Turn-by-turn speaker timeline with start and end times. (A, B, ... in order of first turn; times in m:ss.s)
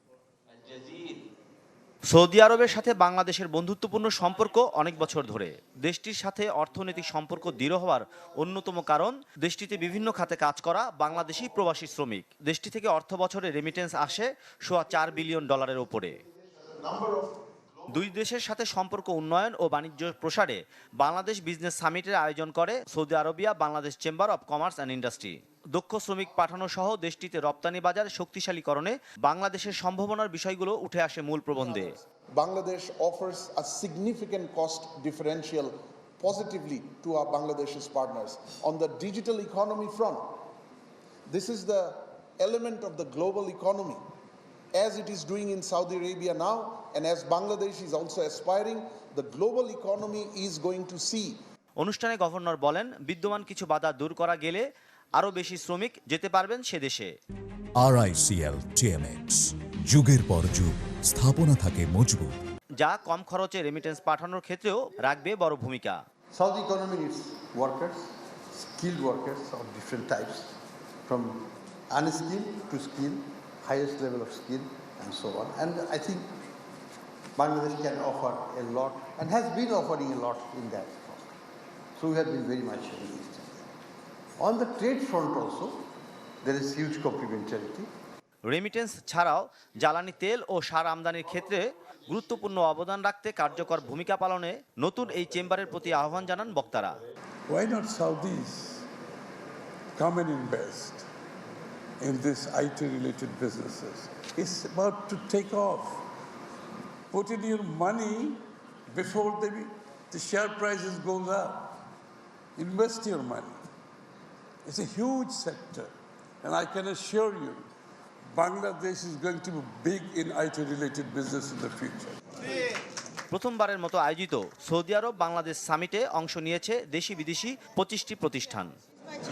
0:02.1-0:16.2 A
0:16.8-0:17.3 B
0:17.9-0:31.9 A
0:32.4-0:40.4 B
0:41.3-0:44.0 B
0:44.8-0:51.4 B
0:51.8-0:54.6 A
0:55.2-0:57.1 A
0:57.8-1:02.3 C
1:02.8-1:06.0 A
1:06.3-1:10.6 D
1:11.1-1:16.3 D
1:17.4-1:21.3 D
1:22.0-1:23.7 D
1:24.4-1:25.8 D
1:26.4-1:27.9 D
1:28.5-1:37.0 A
1:37.5-1:38.9 E
1:40.0-1:41.1 E
1:42.0-1:46.1 E
1:47.1-1:51.8 E
1:52.6-1:53.6 E
1:54.7-1:55.9 E
1:56.4-1:57.7 E
1:58.3-2:02.2 E
2:03.3-2:08.7 A